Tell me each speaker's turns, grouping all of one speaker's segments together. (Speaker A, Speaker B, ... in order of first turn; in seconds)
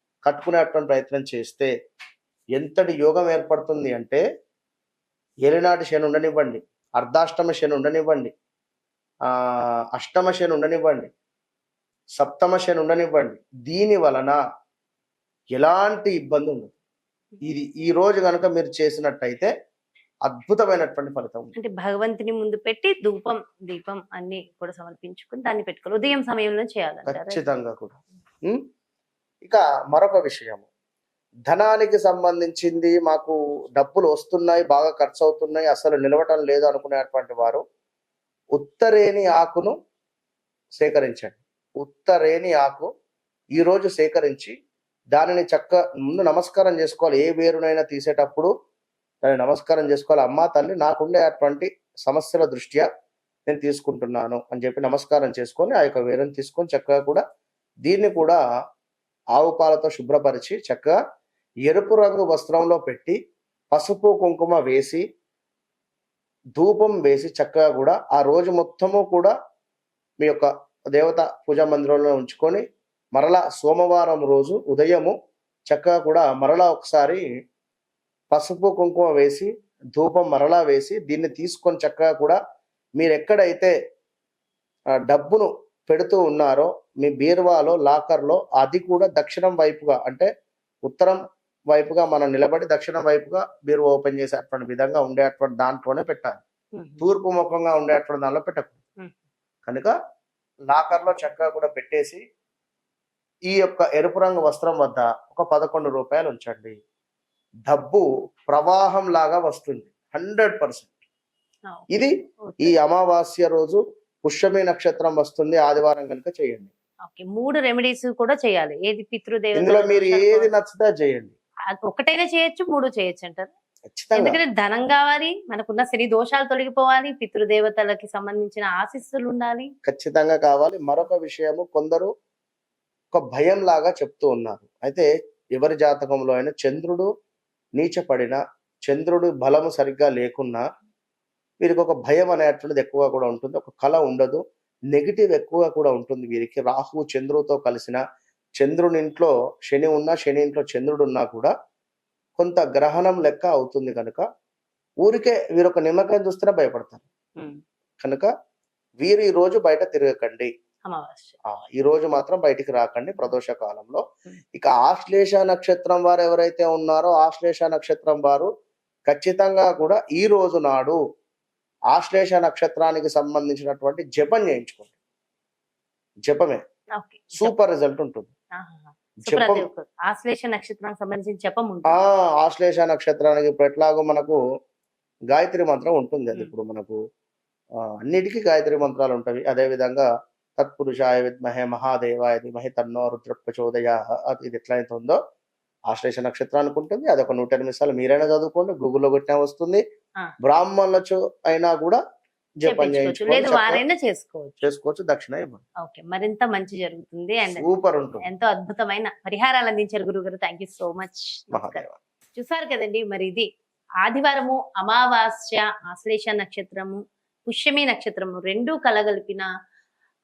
Speaker A: 0.3-1.7, 2.6-4.2, 5.5-8.3, 9.9-11.1, 12.2-14.4, 15.5-16.8, 17.4-19.5, 20.3-21.5, 27.1-28.6, 29.4-30.7, 31.5-37.6, 38.6-39.7, 40.8-42.9, 43.6-44.5, 45.1-48.5, 49.2-52.9, 53.5-57.2, 57.9-58.4, 59.4-61.0, 61.7-63.2, 63.7-65.0, 66.6-69.3, 70.2-72.6, 73.2-75.1, 75.7-77.2, 78.3-82.4, 83.0-83.7, 85.0-90.3, 90.8-91.2, 91.7-96.4, 97.0-98.8, 99.7-99.9, 100.7-102.2, 103.5-106.8, 107.7-110.9, 111.9-116.7, 119.5-121.3, 123.9-124.4, 129.9-132.1, 133.1-137.1, 137.8-140.6, 141.6-148.0, 148.6-151.5, 152.4-154.2, 155.0-157.1, 158.0-158.3, 159.0-160.5, 161.5-164.0, 164.6-168.5, 169.1-171.0, 171.9-174.9, 176.3-176.6, 177.4-178.3, 179.2-179.7, 181.9-184.4, 185.3-187.0, 188.0-190.1, 190.6-195.2, 195.9-199.8, 200.4-202.0, 202.6-203.8, 204.6-205.6, 207.5-208.3, 211.5-211.9
Speaker B: 21.6-27.4, 96.8-97.1, 112.5-112.8, 117.1-120.5, 121.8-123.5, 124.2-129.7, 160.9-161.4, 177.0-177.6, 178.6-182.1, 202.6-204.6, 205.8-207.7, 208.2-213.5, 214.0-219.5